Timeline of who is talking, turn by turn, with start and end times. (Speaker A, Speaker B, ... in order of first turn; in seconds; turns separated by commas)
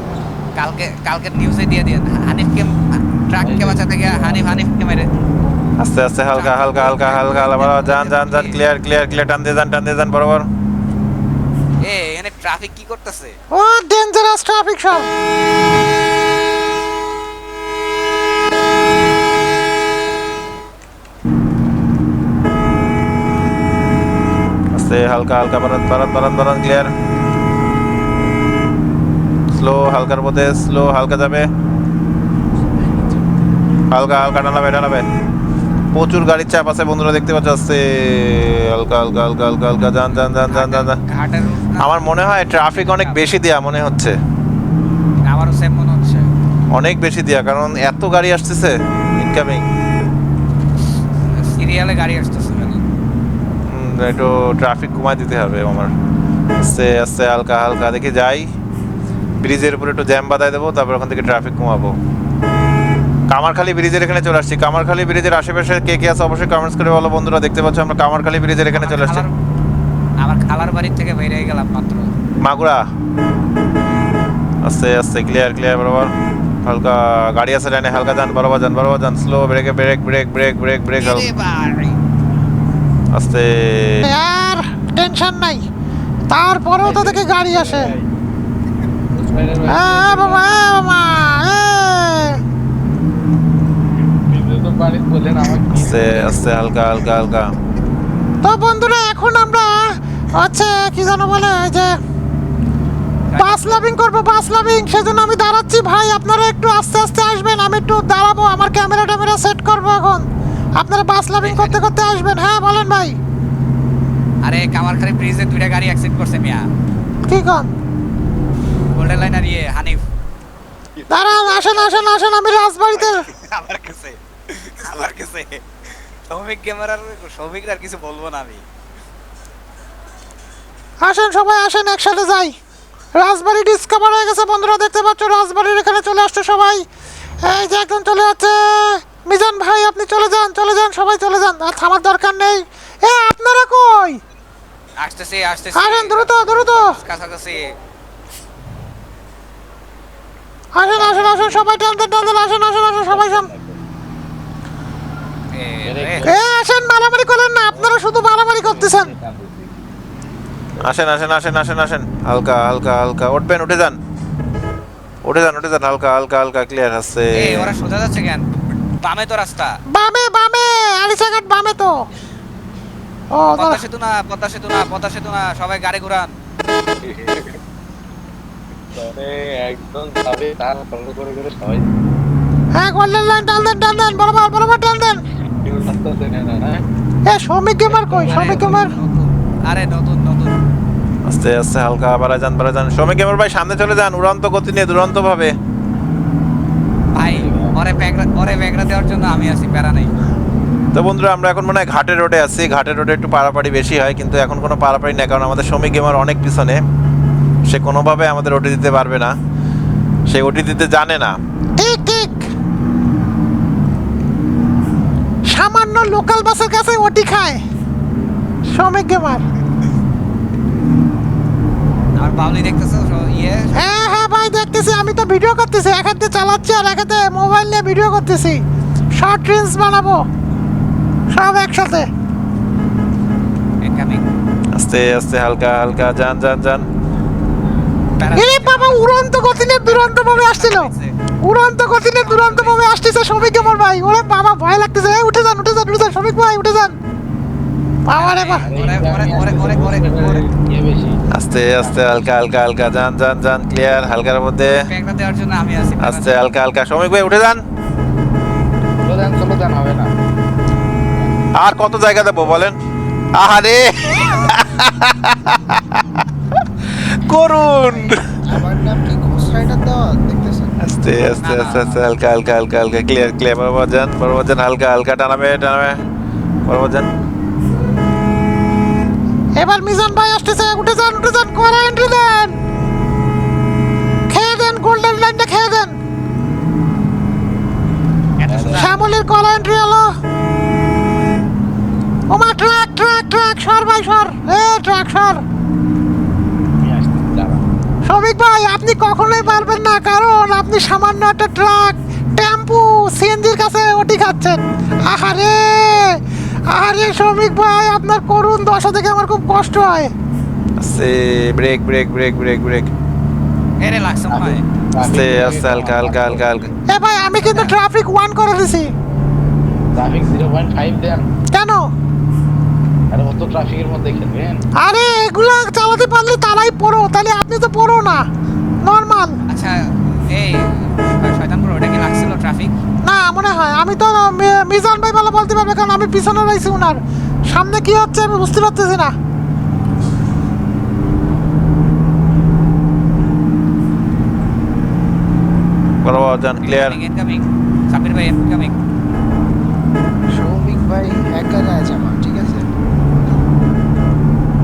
Speaker A: 0.6-5.1, Speaker B: 3.4-4.7, Speaker C: 5.8-10.4, Speaker A: 6.3-8.6, Speaker A: 11.8-13.3, Speaker D: 13.5-15.1, Speaker C: 24.7-26.9, Speaker C: 29.5-31.5, Speaker C: 33.9-35.0, Speaker C: 35.9-41.0, Speaker A: 40.1-43.4, Speaker C: 41.8-44.2, Speaker A: 45.2-46.3, Speaker C: 46.7-49.6, Speaker A: 51.2-52.8, Speaker C: 53.7-55.9, Speaker C: 56.6-58.5, Speaker C: 59.4-62.0, Speaker C: 63.3-69.2, Speaker A: 68.7-69.3, Speaker A: 70.2-72.1, Speaker C: 72.4-72.8, Speaker C: 74.6-76.1, Speaker C: 76.6-81.3, Speaker A: 81.0-82.0, Speaker C: 83.1-84.1, Speaker D: 84.0-85.6, Speaker D: 86.3-87.9, Speaker B: 86.8-88.1, Speaker B: 89.1-90.5, Speaker D: 89.7-92.4, Speaker B: 94.2-96.4, Speaker C: 95.8-97.5, Speaker D: 98.4-102.0, Speaker A: 103.3-103.9, Speaker D: 103.4-113.2, Speaker A: 111.4-111.8, Speaker A: 114.4-116.7, Speaker D: 117.3-117.7, Speaker A: 118.9-120.0, Speaker B: 121.0-121.9, Speaker D: 121.1-123.2, Speaker A: 121.5-122.0, Speaker A: 122.9-125.6, Speaker A: 126.3-128.6, Speaker D: 131.0-132.6, Speaker D: 133.1-136.8, Speaker D: 137.4-144.2, Speaker A: 145.0-147.7, Speaker D: 145.7-147.0, Speaker D: 150.7-153.5, Speaker B: 150.9-151.8, Speaker B: 153.1-153.8, Speaker A: 155.5-156.2, Speaker B: 155.8-156.4, Speaker D: 156.2-159.1, Speaker B: 157.7-159.8, Speaker C: 160.8-164.0, Speaker C: 165.2-167.7, Speaker A: 167.3-168.4, Speaker A: 169.0-169.8, Speaker D: 169.9-172.1, Speaker D: 173.3-173.8, Speaker A: 173.6-176.3, Speaker B: 177.0-177.6, Speaker B: 178.9-181.9, Speaker D: 182.8-185.2, Speaker B: 185.6-186.8, Speaker D: 187.2-188.9, Speaker A: 187.9-190.6, Speaker B: 188.1-188.9, Speaker C: 191.3-195.5, Speaker A: 197.1-200.1, Speaker B: 197.2-197.8, Speaker C: 200.9-206.8, Speaker C: 207.7-209.3, Speaker C: 210.3-211.3, Speaker D: 211.8-212.5, Speaker D: 215.5-217.6, Speaker D: 218.7-219.4, Speaker A: 222.2-223.8, Speaker D: 223.7-228.6, Speaker D: 229.1-230.3, Speaker D: 231.3-232.1, Speaker A: 233.8-234.2, Speaker C: 234.7-236.8, Speaker A: 238.2-241.1, Speaker D: 238.3-247.0, Speaker A: 242.0-242.8, Speaker A: 243.3-243.8, Speaker D: 248.1-248.6, Speaker A: 248.1-250.4, Speaker B: 248.6-252.6, Speaker C: 251.3-254.9, Speaker A: 254.7-256.4, Speaker C: 256.0-257.6, Speaker B: 259.0-260.1, Speaker C: 261.5-262.8, Speaker C: 263.3-266.2, Speaker C: 266.8-268.4, Speaker E: 267.8-270.8, Speaker C: 270.8-276.0, Speaker A: 271.4-272.0, Speaker C: 276.6-277.1, Speaker D: 279.6-282.6, Speaker D: 284.3-286.0, Speaker A: 288.4-289.1, Speaker B: 288.4-289.0, Speaker D: 288.7-290.1, Speaker D: 292.3-295.4, Speaker B: 296.8-297.6, Speaker D: 298.1-310.1, Speaker C: 310.8-312.9, Speaker A: 313.8-314.6, Speaker B: 314.3-316.8, Speaker C: 315.0-316.7, Speaker D: 316.9-318.9, Speaker A: 317.4-317.7, Speaker B: 319.9-321.3, Speaker D: 321.5-321.9, Speaker B: 323.1-324.6, Speaker D: 324.8-328.3, Speaker D: 328.8-329.4, Speaker A: 329.5-332.8, Speaker D: 333.0-339.1, Speaker C: 346.0-347.0, Speaker A: 346.6-348.8, Speaker E: 350.3-352.7